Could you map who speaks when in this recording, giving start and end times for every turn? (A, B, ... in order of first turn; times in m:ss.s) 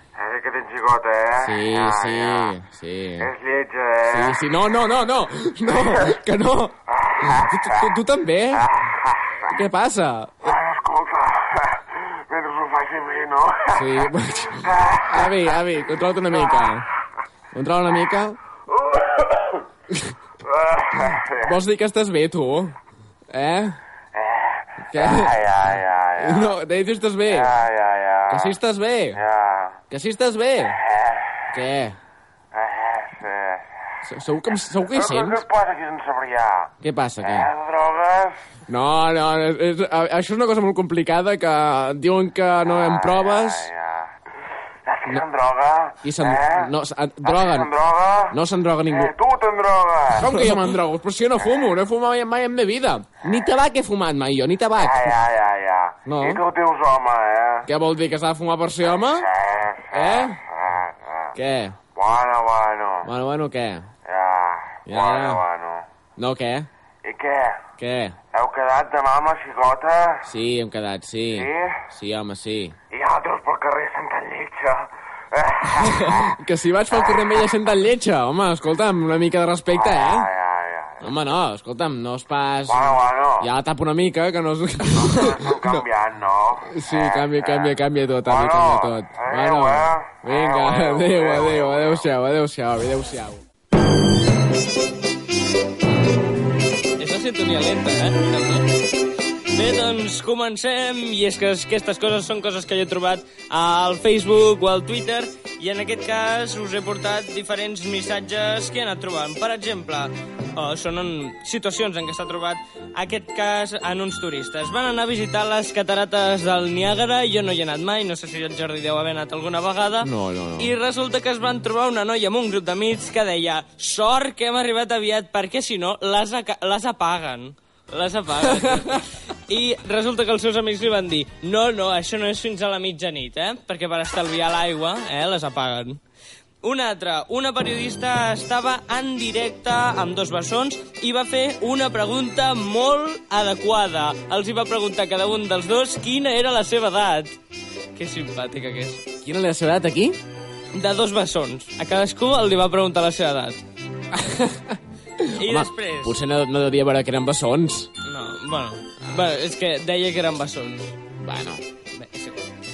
0:00.2-0:02.5 A
0:01.4-0:03.3 B
0:03.2-0:04.4 A
0:04.0-0:08.7 B
0:07.0-0:07.9 A
0:09.5-0:10.5 B
0:10.4-0:11.6 A
0:12.3-0:14.0 A
0:13.7-0:16.9 B
0:14.6-0:15.4 A
0:17.5-0:18.4 B
0:19.0-0:19.6 A
0:20.5-0:21.5 A
0:21.4-0:22.7 B
0:23.3-0:23.8 B
0:24.9-0:27.6 B
0:24.9-0:26.5 A
0:27.3-0:28.5 A
0:28.3-0:29.2 B
0:29.3-0:29.5 A
0:29.9-0:30.8 B
0:31.5-0:32.0 B
0:32.6-0:33.6 A
0:34.0-0:35.4 B
0:34.9-0:36.7 A
0:36.8-0:37.5 B
0:37.2-0:38.4 A
0:38.7-0:43.7 B
0:42.7-0:44.0 A
0:44.8-0:46.7 A
0:46.0-0:47.7 B
0:47.2-0:48.3 A
0:48.3-0:49.1 B
0:48.8-0:50.3 A
0:50.1-0:55.2 B
0:54.8-0:57.6 A
0:56.0-0:56.4 B
0:57.7-0:59.3 B
0:59.0-1:00.9 A
0:59.9-1:00.4 B
1:01.3-1:01.8 B
1:02.0-1:03.0 A
1:03.0-1:03.9 B
1:04.1-1:05.8 A
1:04.8-1:05.4 B
1:06.2-1:06.7 B
1:07.0-1:07.6 A
1:07.8-1:08.2 B
1:08.3-1:10.2 A
1:10.2-1:12.8 B
1:11.3-1:11.8 A
1:12.9-1:16.3 A
1:15.8-1:20.3 B
1:19.7-1:21.1 A
1:21.0-1:25.8 B
1:22.7-1:23.4 A
1:24.9-1:32.0 A
1:26.7-1:33.4 B
1:37.0-1:38.8 C
1:39.5-2:16.0 C
2:00.0-2:00.7 B
2:08.6-2:09.0 B
2:16.6-2:27.3 C
2:28.0-2:29.0 C
2:29.2-2:30.2 B
2:30.7-2:33.6 C
2:34.1-2:37.9 B
2:35.3-2:36.2 C
2:38.0-2:40.9 C
2:41.2-2:41.6 B
2:42.0-2:42.4 C